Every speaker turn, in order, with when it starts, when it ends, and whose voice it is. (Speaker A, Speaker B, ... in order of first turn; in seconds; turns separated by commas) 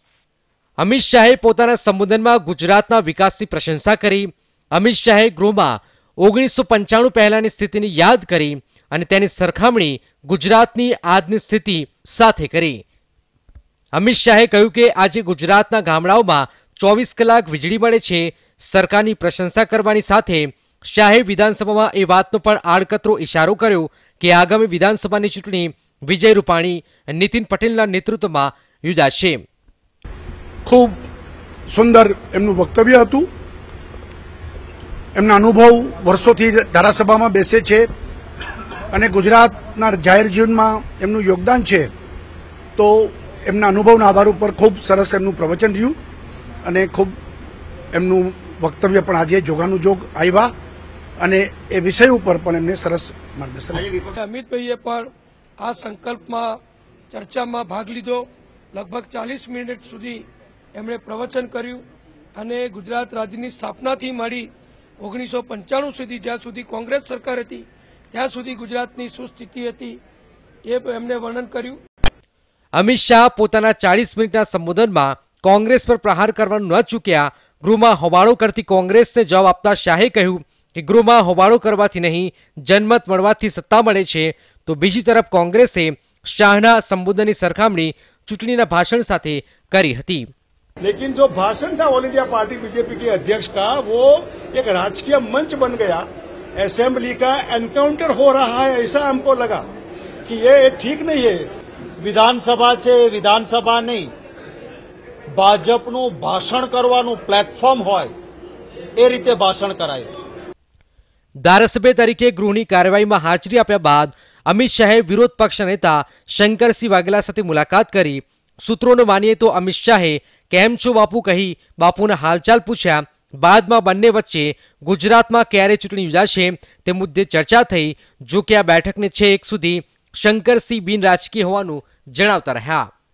Speaker A: 0.8-12.8, Speaker A: 13.9-29.4, Speaker B: 30.7-31.0, Speaker B: 31.7-33.3, Speaker B: 35.1-37.9, Speaker B: 38.9-41.9, Speaker B: 42.8-46.0, Speaker B: 46.6-47.1, Speaker B: 47.9-50.5, Speaker B: 51.2-53.9, Speaker C: 54.2-55.1, Speaker C: 55.6-56.6, Speaker C: 57.1-61.8, Speaker C: 62.4-70.0, Speaker C: 70.7-71.8, Speaker A: 72.8-90.3, Speaker D: 90.8-96.1, Speaker D: 96.6-99.7, Speaker D: 100.3-101.5, Speaker E: 102.0-104.1, Speaker E: 105.3-108.1, Speaker E: 109.0-110.2, Speaker A: 111.4-132.9